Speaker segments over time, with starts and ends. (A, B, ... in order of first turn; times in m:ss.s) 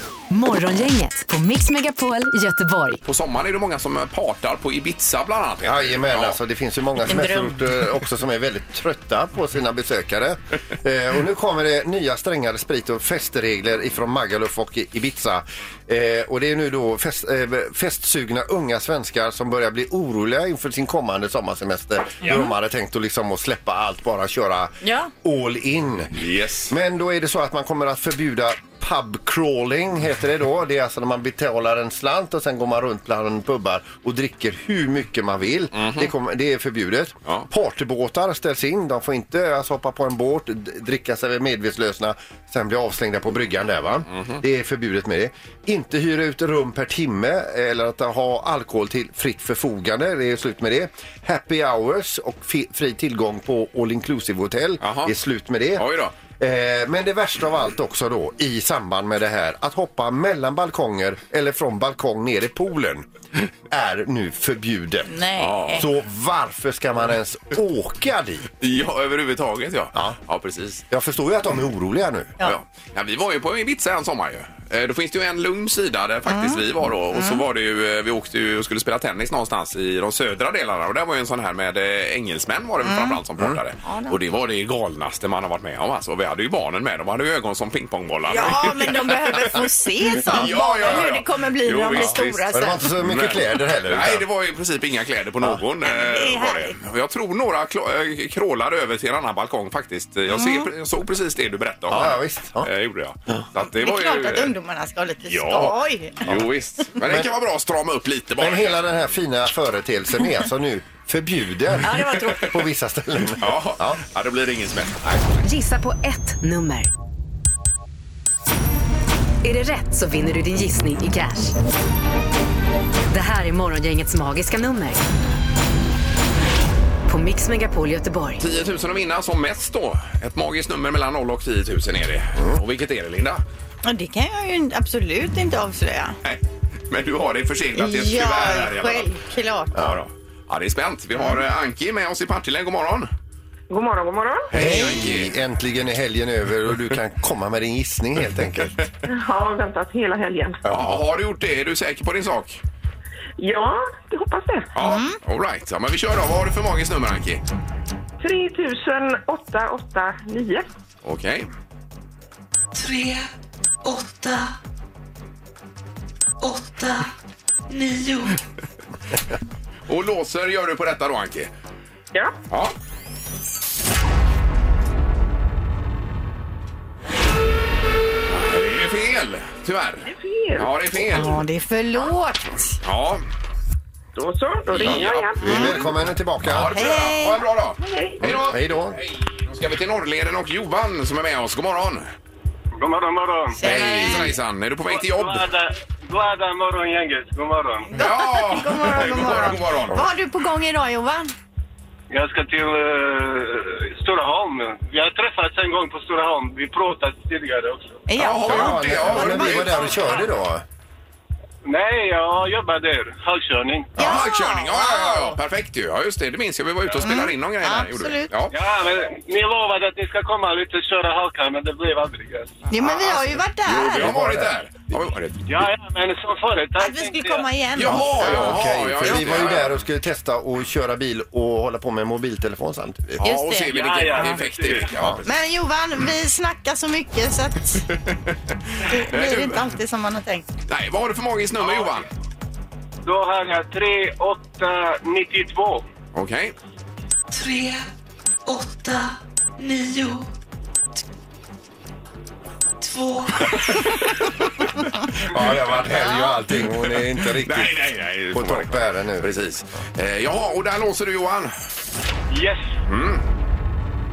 0:00.3-0:03.0 A
0:03.0-0:06.4 B
0:05.6-0:55.8 C
0:07.1-0:07.6 D
0:24.8-0:25.1 D
0:26.2-0:26.7 B
0:35.8-0:36.1 B
0:54.8-0:55.2 B
0:55.8-0:56.2 B
0:56.4-1:03.1 C
1:03.7-1:05.1 C
1:05.1-1:05.9 D
1:05.4-1:05.9 B
1:05.8-1:08.5 C
1:08.6-1:10.8 B
1:10.9-1:12.4 C
1:12.4-1:44.5 B
1:16.3-1:16.6 D
1:17.2-1:17.4 D
1:22.8-1:23.2 D
1:23.8-1:24.2 D
1:28.3-1:32.8 D
1:31.9-1:34.2 C
1:35.8-1:36.7 D
1:40.3-1:40.7 D
1:41.9-1:42.7 C
1:43.6-1:46.2 D
1:45.3-1:48.7 B
1:47.0-1:47.3 C
1:48.4-1:54.0 C
1:51.8-1:52.5 D
1:53.4-1:55.2 B
1:55.4-1:56.9 A
1:59.4-2:01.6 A
2:03.1-2:05.0 A
2:07.1-2:08.4 A
2:08.4-2:13.4 B
2:13.8-2:16.2 D
2:16.2-2:19.1 B
2:17.8-2:19.8 D
2:19.7-2:23.1 B
2:23.7-2:24.5 E
2:24.5-2:25.4 B
2:24.5-2:28.8 C
2:29.1-2:30.6 E
2:30.6-2:31.0 C
2:30.7-2:32.6 B
2:33.4-2:34.7 E
2:34.8-2:37.4 B
2:34.8-2:35.2 D
2:38.2-2:40.7 E
2:41.0-2:41.5 B
2:42.7-2:43.3 F
2:43.8-2:44.6 F
2:46.4-2:47.1 F
2:47.7-2:48.4 F
2:49.9-2:51.5 B
2:58.3-3:01.4 B
3:00.0-3:01.2 E
3:01.1-3:02.8 D
3:02.8-3:03.2 B
3:04.2-3:05.8 E
3:04.8-3:12.1 B
3:04.9-3:06.8 C
3:06.7-3:07.4 D
3:07.8-3:08.2 E
3:08.2-3:09.0 C
3:12.8-3:14.2 G
3:13.6-3:14.4 D
3:13.6-3:15.5 B
3:14.9-3:18.0 G
3:17.9-3:21.3 D
3:18.0-3:20.0 B
3:22.1-3:28.0 G
3:28.1-3:30.2 D
3:28.2-3:30.0 B
3:28.4-3:30.6 C
3:31.6-3:34.0 G
3:34.0-3:35.4 D
3:34.0-3:38.6 B
3:37.0-3:38.3 D
3:38.5-3:42.6 G
3:42.7-3:44.2 D
3:42.7-3:45.7 B
3:44.0-3:44.5 C
3:45.5-3:47.5 G
3:46.8-3:48.6 D
3:47.8-3:49.7 B
3:48.2-3:53.2 C
3:53.2-3:55.3 B
3:53.2-3:54.4 D
3:53.7-3:54.9 G
3:55.2-3:57.8 D
3:58.8-4:00.5 D
3:59.1-3:59.7 B
4:00.7-4:02.1 B
4:01.6-4:01.9 G
4:03.0-4:05.9 G
4:06.1-4:06.5 B
4:07.3-4:07.9 F
4:08.5-4:10.3 F
4:12.8-4:13.5 F
4:13.8-4:14.1 B
4:15.3-4:17.8 C
4:16.5-4:21.5 B
4:18.3-4:19.4 C
4:22.3-4:22.8 G
4:22.9-4:23.3 B